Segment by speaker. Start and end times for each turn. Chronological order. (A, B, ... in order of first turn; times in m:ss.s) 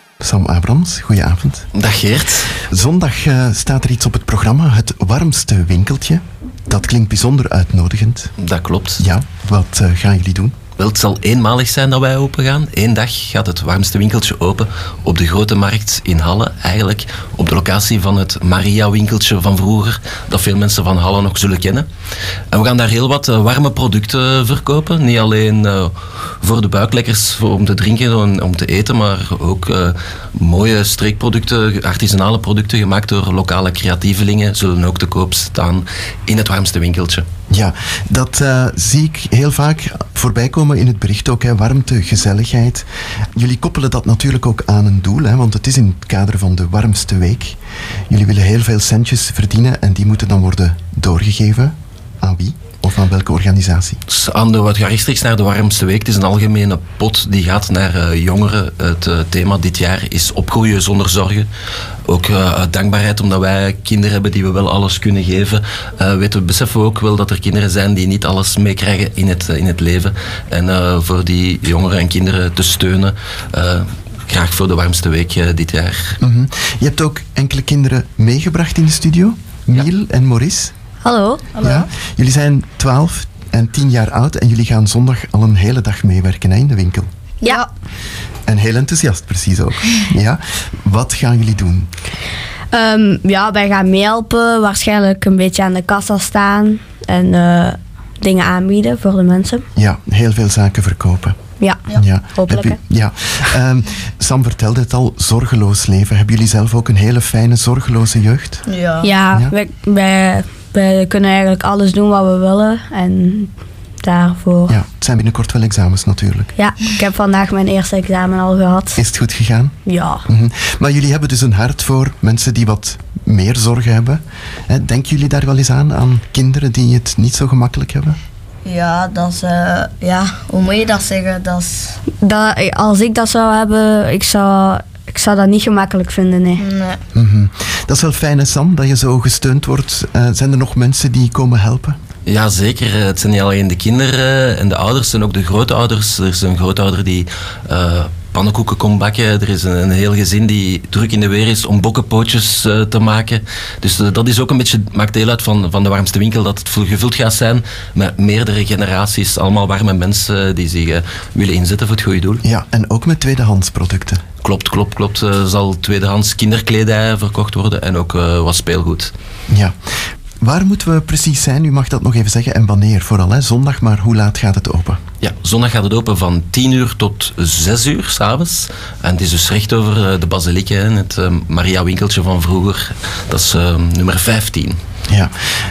0:00.2-0:01.7 A
0:01.7-0:02.5 B
0:02.7-0:08.3 A
0:08.4-0:09.0 B
0:09.0-0:10.6 A
0:10.8-0:21.9 B
0:22.5-0:37.2 B
0:37.5-0:47.6 A
0:48.1-0:54.0 A
0:54.1-1:01.5 B
1:02.1-1:16.2 B
1:16.2-1:20.7 A
1:21.0-1:21.6 C
1:21.6-1:27.1 A
1:28.5-1:31.9 A
1:32.7-1:39.6 C
1:39.8-1:41.4 A
1:41.9-1:48.6 A
1:42.3-1:42.8 C
1:48.6-1:49.1 D
1:49.0-1:53.5 C
1:54.0-1:54.8 C
1:54.7-1:56.5 A
1:56.6-1:59.0 C
1:59.0-1:59.8 A
1:59.8-2:00.2 C
2:00.3-2:08.2 A
2:08.6-2:12.0 D
2:12.2-2:16.6 C
2:16.6-2:17.0 D
2:17.1-2:22.0 A
2:22.2-2:42.4 B
2:42.4-2:44.2 A
2:44.4-2:49.1 B
2:50.4-2:55.0 A
2:55.2-3:04.8 B